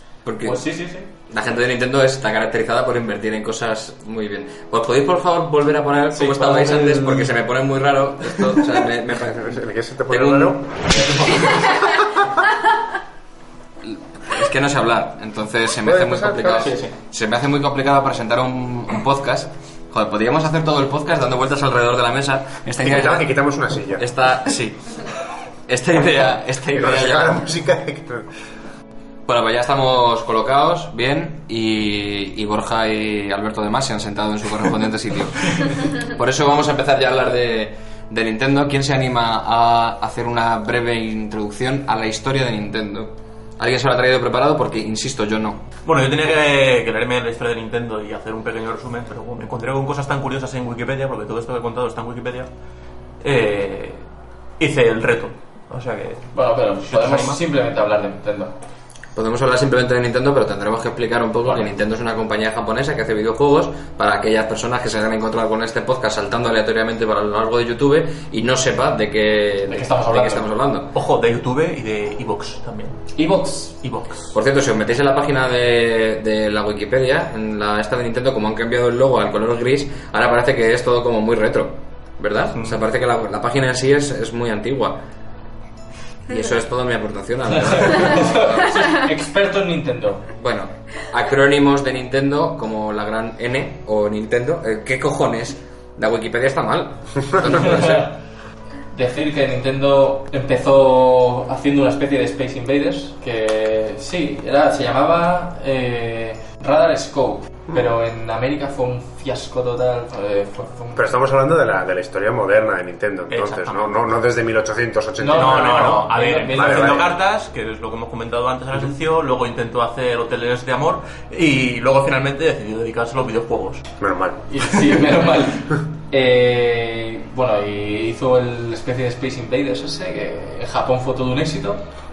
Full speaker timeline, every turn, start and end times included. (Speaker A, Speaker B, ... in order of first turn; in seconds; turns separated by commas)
Speaker A: 0.2-0.6, Speaker B: 0.4-1.1, Speaker A: 1.3-11.7, Speaker B: 6.1-7.2, Speaker C: 6.2-7.1, Speaker D: 9.2-10.7, Speaker C: 11.1-11.5, Speaker A: 13.8-23.3, Speaker D: 15.8-16.8, Speaker D: 22.8-24.1, Speaker A: 24.0-25.1, Speaker A: 25.7-27.4, Speaker D: 26.6-28.3, Speaker A: 29.3-45.6, Speaker B: 45.9-52.5, Speaker B: 53.2-54.1, Speaker B: 54.6-56.3, Speaker C: 56.3-58.5, Speaker B: 56.9-57.4, Speaker A: 59.1-70.9, Speaker C: 69.7-70.5, Speaker B: 70.9-73.0, Speaker C: 73.2-73.8, Speaker B: 73.8-74.3, Speaker A: 74.3-85.0, Speaker B: 82.5-82.8, Speaker A: 86.3-88.9, Speaker C: 87.5-90.3, Speaker A: 90.4-98.1, Speaker C: 97.4-98.1, Speaker C: 98.9-111.1, Speaker D: 111.0-117.1, Speaker B: 113.3-114.1, Speaker C: 115.2-117.0, Speaker B: 115.3-123.8, Speaker D: 124.0-124.5, Speaker C: 124.5-131.8